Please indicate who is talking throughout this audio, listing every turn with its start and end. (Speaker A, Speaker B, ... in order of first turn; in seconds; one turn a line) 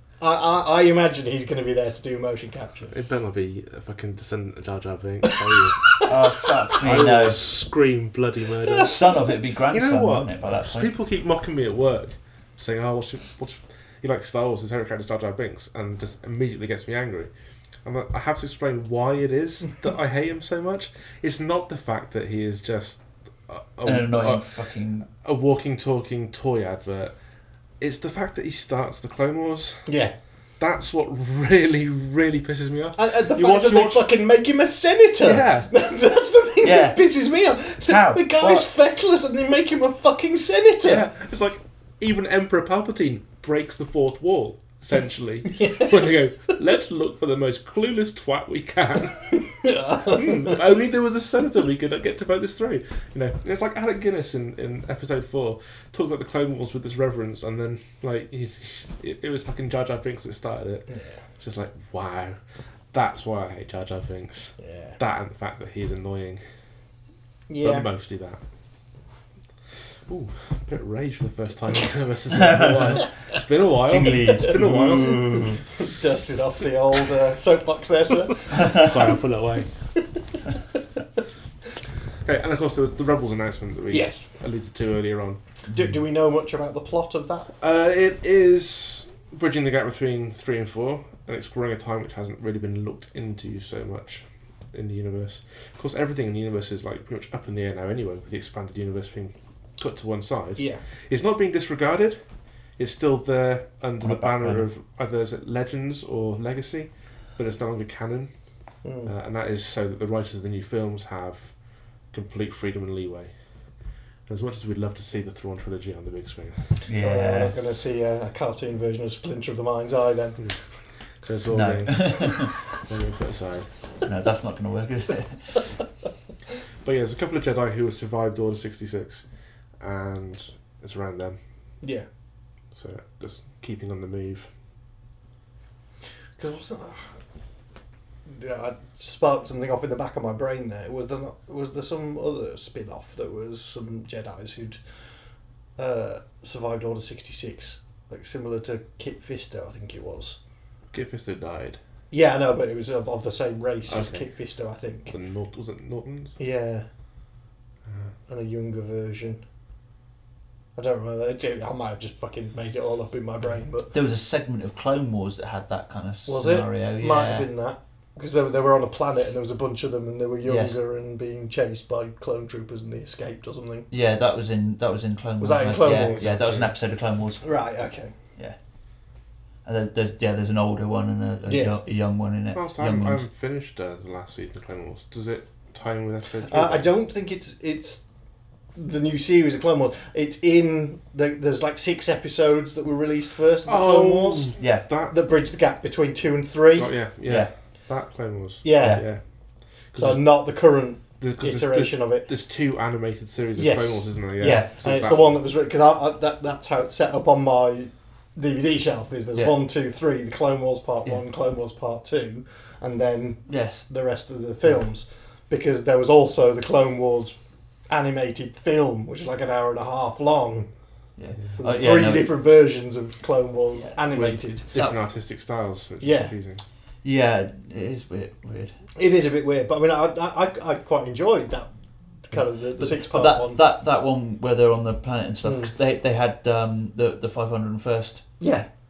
Speaker A: 0.2-2.9
Speaker B: 2.9-5.8
Speaker A: 6.0-6.9
Speaker C: 6.0-7.5
Speaker B: 6.8-9.0
Speaker C: 8.7-10.9
Speaker B: 9.7-17.3
Speaker B: 17.9-24.4
Speaker C: 23.9-25.1
Speaker B: 25.2-27.1
Speaker B: 27.8-29.9
Speaker A: 29.9-30.1
Speaker B: 30.6-34.0
Speaker A: 33.0-41.0
Speaker B: 35.2-35.7
Speaker C: 36.6-37.0
Speaker C: 37.8-38.7
Speaker B: 40.8-60.9
Speaker A: 45.6-46.0
Speaker A: 49.6-50.6
Speaker B: 61.4-62.4
Speaker B: 62.9-66.4
Speaker A: 64.6-65.0
Speaker A: 67.5-67.9
Speaker B: 67.6-68.4
Speaker B: 70.1-75.2
Speaker C: 72.3-73.0
Speaker C: 73.8-75.6
Speaker A: 75.8-79.0
Speaker B: 78.6-79.7
Speaker B: 82.2-85.4
Speaker A: 83.9-84.3
Speaker A: 85.7-87.5
Speaker B: 87.6-102.2
Speaker A: 100.6-100.8
Speaker B: 102.8-108.3
Speaker C: 104.0-104.7
Speaker A: 108.8-109.1
Speaker B: 109.1-111.5
Speaker B: 112.1-113.3
Speaker B: 114.3-116.7
Speaker C: 116.9-117.6
Speaker A: 117.0-120.6
Speaker B: 121.2-123.7
Speaker C: 121.5-122.6
Speaker C: 124.1-125.6
Speaker B: 126.8-129.2
Speaker B: 129.8-131.4
Speaker B: 132.7-134.5
Speaker A: 136.4-137.2
Speaker A: 138.3-144.8
Speaker A: 145.8-150.4
Speaker B: 150.9-151.8
Speaker A: 152.1-155.1
Speaker B: 153.9-154.3
Speaker B: 155.1-156.4
Speaker A: 156.4-156.9
Speaker A: 158.3-159.4
Speaker A: 160.8-163.9
Speaker C: 163.9-167.5
Speaker A: 166.3-173.9
Speaker C: 170.4-170.8
Speaker C: 173.9-177.4
Speaker A: 175.4-176.3
Speaker B: 176.0-176.7
Speaker A: 177.4-178.1
Speaker C: 179.7-183.2
Speaker A: 181.5-181.8
Speaker B: 182.6-186.9
Speaker A: 186.4-188.0
Speaker A: 188.8-194.6
Speaker B: 193.7-195.2
Speaker C: 194.6-194.8
Speaker A: 195.1-196.9
Speaker B: 196.8-199.2
Speaker C: 197.3-197.5
Speaker A: 198.6-199.1
Speaker B: 199.9-200.3
Speaker A: 199.9-202.3
Speaker B: 201.2-205.4
Speaker A: 203.6-217.4
Speaker C: 213.5-213.8
Speaker A: 217.9-220.7
Speaker C: 221.2-222.3
Speaker A: 221.6-224.7
Speaker B: 224.1-226.6
Speaker A: 226.0-226.3
Speaker C: 227.0-228.8
Speaker A: 229.0-231.7
Speaker A: 232.3-233.6
Speaker C: 232.8-238.3
Speaker A: 235.4-235.7
Speaker A: 238.4-238.7